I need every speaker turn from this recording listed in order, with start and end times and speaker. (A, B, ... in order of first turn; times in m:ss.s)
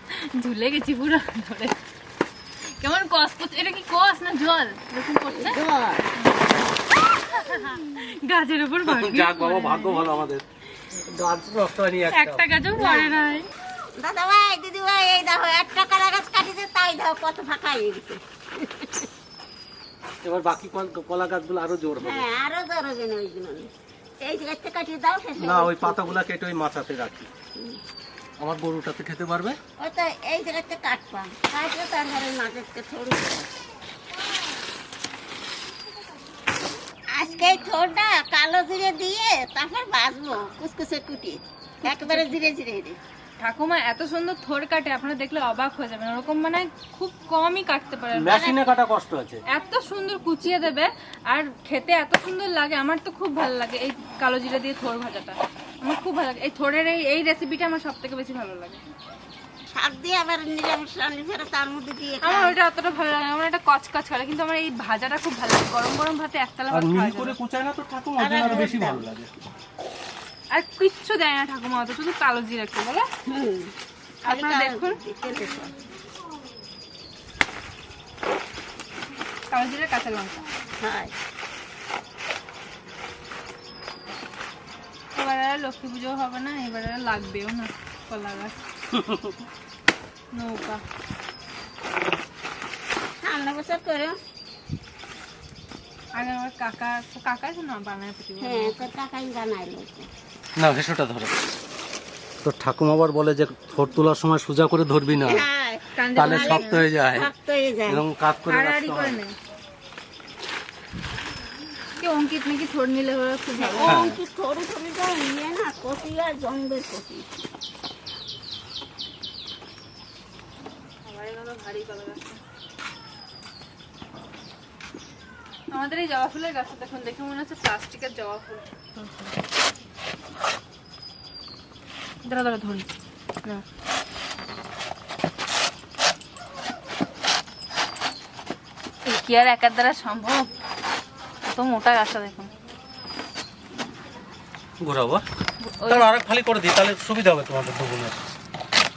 0:00.2-0:01.8 A
0:02.8-0:05.6 A
0:05.4-0:06.0 B
0:06.2-0:06.5 A
0:07.1-0:10.1 A
0:08.8-0:12.4 C
0:12.1-0:13.5 A
0:12.8-0:13.2 B
0:14.0-0:19.1 B
0:20.2-0:22.2 C
0:22.0-0:23.7 B
0:24.2-0:26.2 B
0:25.4-0:27.3 C
0:28.4-0:29.6 C
0:29.8-0:33.5 B
0:37.1-0:43.0 B
0:41.8-0:42.4 A
0:43.4-0:48.4 A
0:48.1-0:49.4 C
0:49.5-0:58.8 A
0:59.7-1:02.6 B
1:02.2-1:07.4 A
1:06.7-1:09.3 C
1:08.2-1:09.0 B
1:10.5-1:13.0 A
1:13.3-1:13.7 B
1:14.2-1:15.0 A
1:14.2-1:15.7 B
1:19.5-1:20.4 A
1:20.8-1:21.1 B
1:25.1-1:28.5 A
1:28.9-1:29.3 C
1:30.3-1:30.8 A
1:33.2-1:34.2 B
1:36.2-1:38.8 A
1:38.4-1:40.1 B
1:40.6-1:41.4 C
1:42.4-1:45.5 C
1:45.2-1:48.0 B
1:45.9-1:46.8 A
1:46.2-1:47.3 C
1:47.9-1:49.2 C
1:48.5-1:49.3 A
1:52.0-1:54.1 A
1:53.6-1:57.3 B
1:53.8-1:54.2 C
2:01.0-2:02.4 A
2:05.7-2:09.3 A
2:12.2-2:12.9 A
2:19.0-2:20.5 A
2:21.4-2:22.5 A
2:24.8-2:25.2 C
2:25.6-2:26.1 A
2:25.9-2:28.3 C